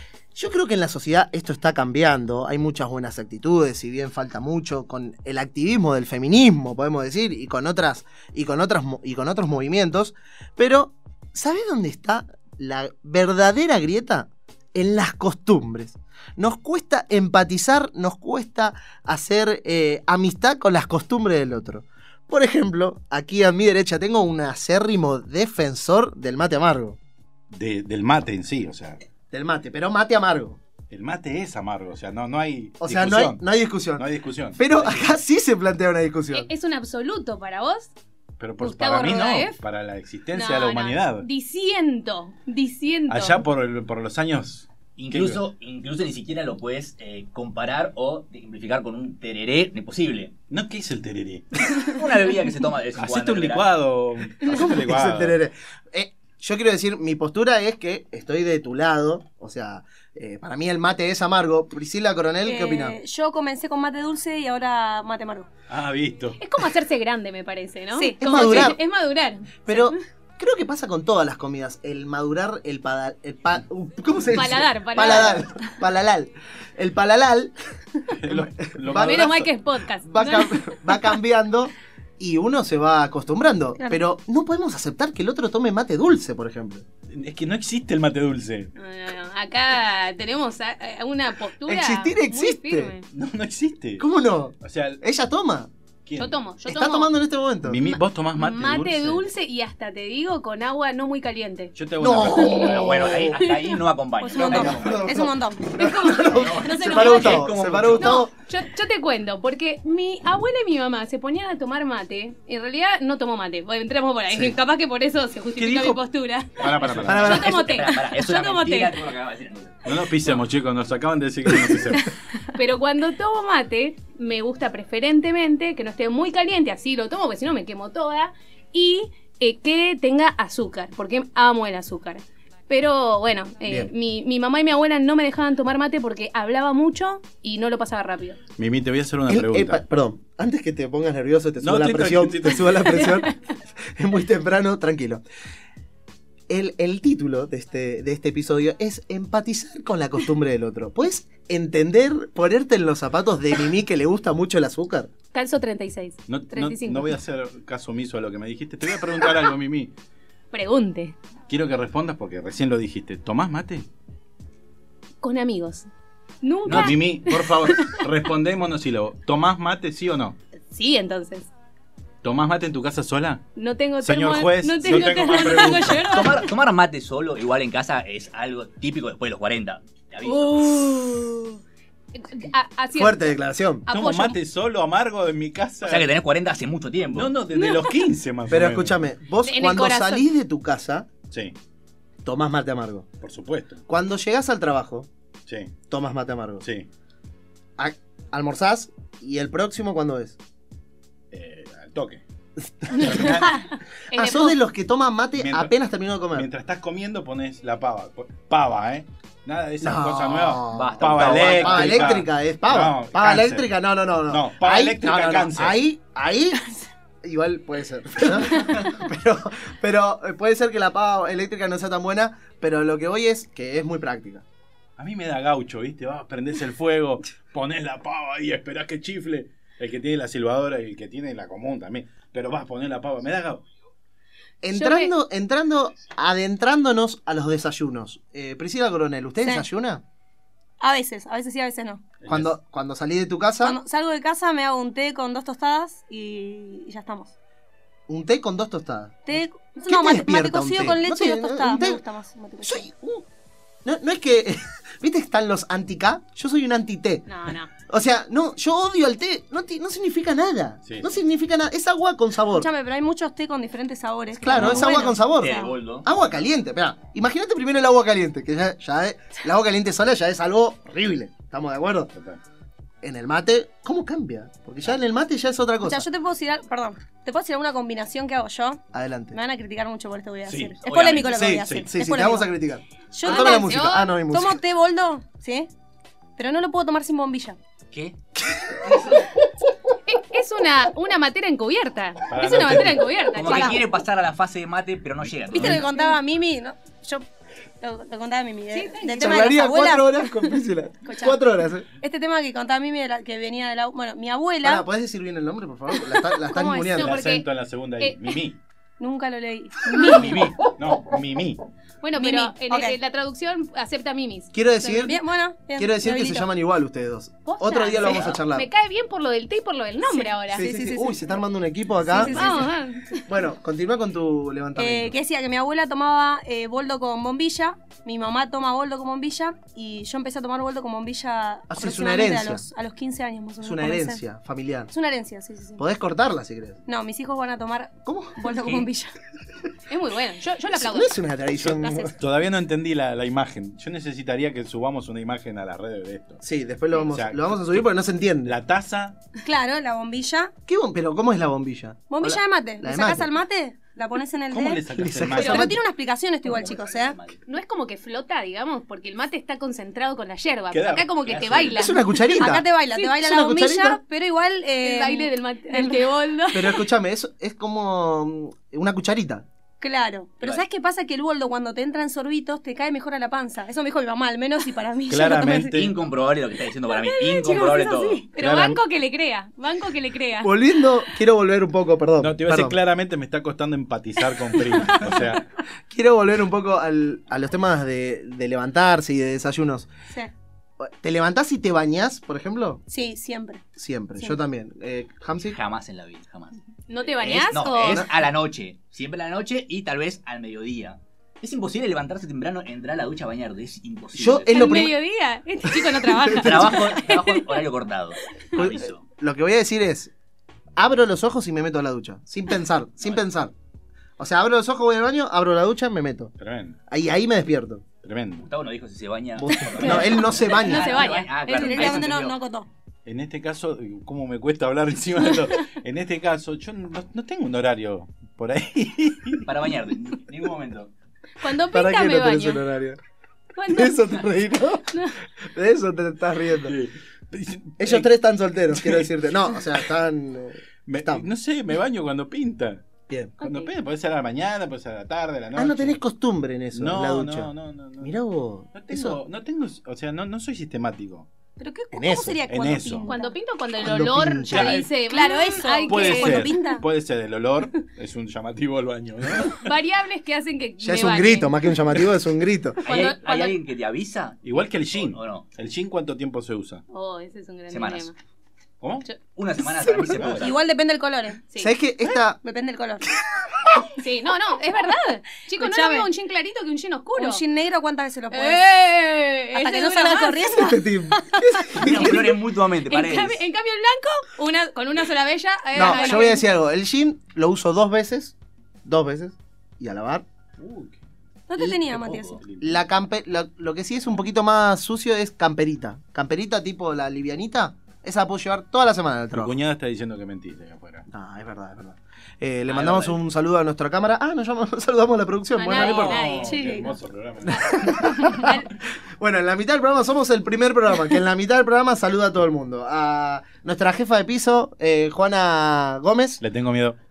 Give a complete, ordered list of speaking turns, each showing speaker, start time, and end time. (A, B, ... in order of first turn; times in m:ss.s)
0:00.3-0:27.0 A
0:27.5-0:29.0 B
0:29.3-0:30.6 A
0:30.9-0:33.4 B
0:32.8-0:36.5 A
0:33.9-0:35.2 B
0:36.3-0:37.9 C
0:38.4-0:41.3 B
0:38.6-0:39.6 C
0:40.3-0:43.4 C
0:43.1-0:45.4 B
0:45.0-0:50.3 D
0:50.5-0:51.9 B
0:51.7-0:53.7 D
0:53.0-0:55.4 B
0:54.4-1:03.0 A
1:02.4-1:05.5 E
1:05.7-1:06.4 B
1:06.4-1:10.0 C
1:07.9-1:08.8 E
1:08.2-1:08.8 A
1:09.6-1:17.5 A
1:14.3-1:15.8 C
1:18.1-1:19.4 B
1:18.2-1:19.5 A
1:18.9-1:21.2 C
1:20.0-1:26.8 A
1:27.1-1:28.7 B
1:28.7-1:33.0 C
1:31.6-1:32.9 A
1:33.1-1:34.0 B
1:34.0-1:35.7 A
1:34.6-1:35.0 B
1:36.0-1:36.4 B
1:36.2-1:37.1 C
1:36.6-1:37.9 A
1:37.6-1:39.3 B
1:38.3-1:41.7 C
1:41.8-1:43.0 B
1:42.0-1:43.4 A
1:42.2-1:42.8 C
1:42.5-1:45.2 D
1:43.4-1:43.7 C
1:44.2-1:45.6 E
1:44.4-1:48.3 A
1:45.7-1:59.0 C
1:46.1-1:48.2 D
1:55.6-1:56.0 B
1:56.6-1:57.5 B
1:56.8-1:59.9 D
1:57.0-1:57.6 A
1:59.8-2:02.1 B
2:01.9-2:18.4 C
2:18.6-2:19.8 B
2:19.3-2:25.2 A
2:21.6-2:23.2 B
2:23.0-2:23.3 C
2:26.5-2:35.1 A
2:35.3-2:37.2 C
2:36.3-2:39.9 B
2:40.5-2:41.2 C
2:41.5-2:43.9 B
2:45.2-2:45.9 C
2:46.4-2:48.0 C
2:46.6-2:47.0 D
2:46.7-2:50.4 B
2:50.7-2:51.5 C
2:52.2-2:53.4 B
2:53.6-2:56.5 C
2:54.0-2:56.3 B
2:54.9-3:00.9 D
3:00.2-3:01.6 C
3:02.1-3:03.3 C
3:02.9-3:03.9 A
3:03.8-3:04.4 C
3:03.9-3:06.1 B
3:05.8-3:07.3 D
3:07.1-3:09.0 B
3:07.5-3:07.9 C
3:08.5-3:11.1 A
3:09.4-3:10.3 C
3:11.2-3:11.5 B
3:12.2-3:13.1 A
3:13.2-3:13.8 B
3:13.9-3:15.1 A
3:15.5-3:15.8 B
3:15.9-3:16.6 A
3:16.6-3:16.9 B
3:17.8-3:20.4 A
3:21.3-3:22.2 B
3:22.9-3:23.7 B
3:22.9-3:24.6 C
3:24.1-3:26.5 A
3:25.4-3:25.7 B
3:26.3-3:33.7 B
3:29.8-3:36.6 A
3:30.7-3:32.2 D
3:34.3-3:35.8 B
3:37.2-3:44.4 A
3:45.0-3:53.6 B
3:54.6-4:00.0 A
3:54.7-3:55.1 C
4:00.8-4:02.0 E
4:02.2-4:02.5 B
4:02.3-4:03.8 A
4:03.6-4:07.3 E
4:08.1-4:12.0 A
4:09.3-4:12.9 E
4:12.6-4:13.2 A
4:13.8-4:17.3 A
4:17.3-4:17.7 C
4:17.8-4:22.7 A
4:22.5-4:25.7 E
4:24.4-4:32.1 A
4:24.6-4:26.1 D
4:32.1-4:32.4 B
4:33.0-4:36.1 A
4:35.8-4:42.5 E
4:38.9-4:39.4 A
4:40.4-4:40.8 B
4:40.8-4:41.6 D
4:41.4-4:41.9 B
4:41.8-4:44.6 A
4:43.1-4:45.7 E
4:43.2-4:44.1 C
4:46.4-4:47.6 E
4:47.9-4:48.2 D
4:50.1-4:53.8 C
4:52.3-4:53.1 B
4:53.3-4:53.8 E
4:53.3-4:55.9 D
4:55.5-4:57.2 E
4:57.8-5:00.2 E
4:58.7-4:59.6 C
4:59.2-5:01.9 A
5:01.0-5:01.4 E
5:02.0-5:04.8 E
5:04.6-5:07.1 A
5:06.3-5:07.0 E
5:06.9-5:07.5 C
5:07.0-5:08.6 B
5:08.0-5:08.3 C
5:09.0-5:10.7 E
5:10.0-5:11.6 B
5:12.0-5:14.5 C
5:12.2-5:13.0 E
5:14.5-5:15.2 A
5:14.8-5:16.5 E
5:15.8-5:18.7 A
5:17.4-5:20.7 C
5:18.0-5:18.4 D
5:20.1-5:21.2 E
5:20.5-5:22.6 A
5:22.0-5:22.7 E
5:22.1-5:23.3 C
5:23.3-5:25.1 A
5:24.8-5:34.2 E
5:31.7-5:32.7 A
5:33.6-5:34.9 A
5:34.9-5:35.8 E
5:35.8-5:36.8 A
5:36.8-5:39.1 E
5:38.0-5:38.4 A
5:38.5-5:38.9 D
5:39.9-5:41.2 C
5:40.7-5:42.2 A
5:41.5-5:47.9 B
5:41.8-5:42.1 E
5:46.4-5:48.5 A
5:48.4-5:49.2 B
5:49.4-5:50.5 E
5:50.6-5:53.3 A
5:52.1-5:57.2 E
5:54.5-5:55.7 B
5:55.0-5:55.8 A
5:55.4-5:55.6 C
5:56.4-5:57.4 D
5:57.4-6:03.1 C
6:00.7-6:01.1 B
6:01.2-6:01.9 D
6:01.7-6:04.0 A
6:02.2-6:06.0 E
6:04.8-6:06.8 C
6:06.5-6:09.4 A
6:09.8-6:15.8 E
6:15.1-6:15.9 B
6:15.7-6:18.2 D
6:17.0-6:20.7 C
6:17.4-6:18.2 E
6:18.4-6:18.8 B
6:20.4-6:22.8 A
6:22.2-6:25.4 B
6:25.9-6:29.9 A
6:30.8-6:32.8 A
6:32.9-6:33.6 E
6:33.8-6:35.6 A
6:35.5-6:36.6 D
6:36.9-6:38.0 C
6:37.2-6:38.1 A
6:37.2-6:44.8 D
6:44.2-6:45.0 A
6:44.5-6:47.6 C
6:46.1-6:46.9 A
6:46.4-6:49.0 D
6:48.5-6:50.1 A
6:50.8-6:53.5 A
6:54.2-6:56.3 A
6:56.4-6:56.8 B
6:56.9-6:57.8 A
6:58.0-6:58.5 B
6:58.4-7:02.4 D
6:59.4-7:01.0 A
6:59.8-7:02.1 C
7:00.7-7:02.7 E
7:03.0-7:09.5 B
7:09.4-7:10.9 D
7:11.4-7:12.6 C
7:11.7-7:13.0 A
7:13.5-7:14.0 C
7:13.7-7:16.7 A
7:16.6-7:18.1 B
7:17.8-7:21.2 A
7:18.7-7:19.6 B
7:20.8-7:26.0 B
7:23.1-7:23.4 A
7:23.4-7:23.7 C
7:25.6-7:29.2 A
7:26.7-7:28.1 B
7:28.7-7:31.3 B
7:31.6-7:33.4 E
7:31.9-7:32.4 A
7:32.5-7:33.1 B
7:33.0-7:36.8 C
7:33.8-7:34.8 A
7:34.5-7:34.8 B
7:35.0-7:36.8 E
7:35.9-7:39.7 B
7:39.4-7:41.5 C
7:40.8-7:42.8 A
7:42.8-7:43.6 C
7:42.8-7:45.5 D
7:44.4-7:46.8 B
7:46.9-7:48.1 C
7:47.7-7:48.1 D
7:48.8-7:49.1 B
7:49.3-7:50.6 D
7:50.1-7:50.4 B
7:50.3-7:51.4 E
7:51.6-7:52.4 A
7:52.4-7:53.0 E
7:53.9-7:57.4 C
7:55.6-7:56.1 E
7:57.2-7:58.6 E
7:58.3-8:00.6 C
7:59.6-8:01.9 E
8:00.5-8:02.4 A
8:01.7-8:03.4 D
8:02.9-8:06.4 C
8:05.7-8:06.4 E
8:05.7-8:10.2 A
8:10.6-8:11.0 B
8:11.5-8:12.4 E
8:11.6-8:12.4 D
8:12.4-8:12.8 B
8:12.6-8:19.6 A
8:19.3-8:21.0 B
8:21.1-8:26.3 A
8:22.7-8:23.0 B
8:22.8-8:23.1 D
8:25.6-8:26.9 C
8:25.7-8:28.0 B
8:26.4-8:26.9 E
8:27.4-8:36.4 A
8:27.5-8:28.7 C
8:36.4-8:37.0 B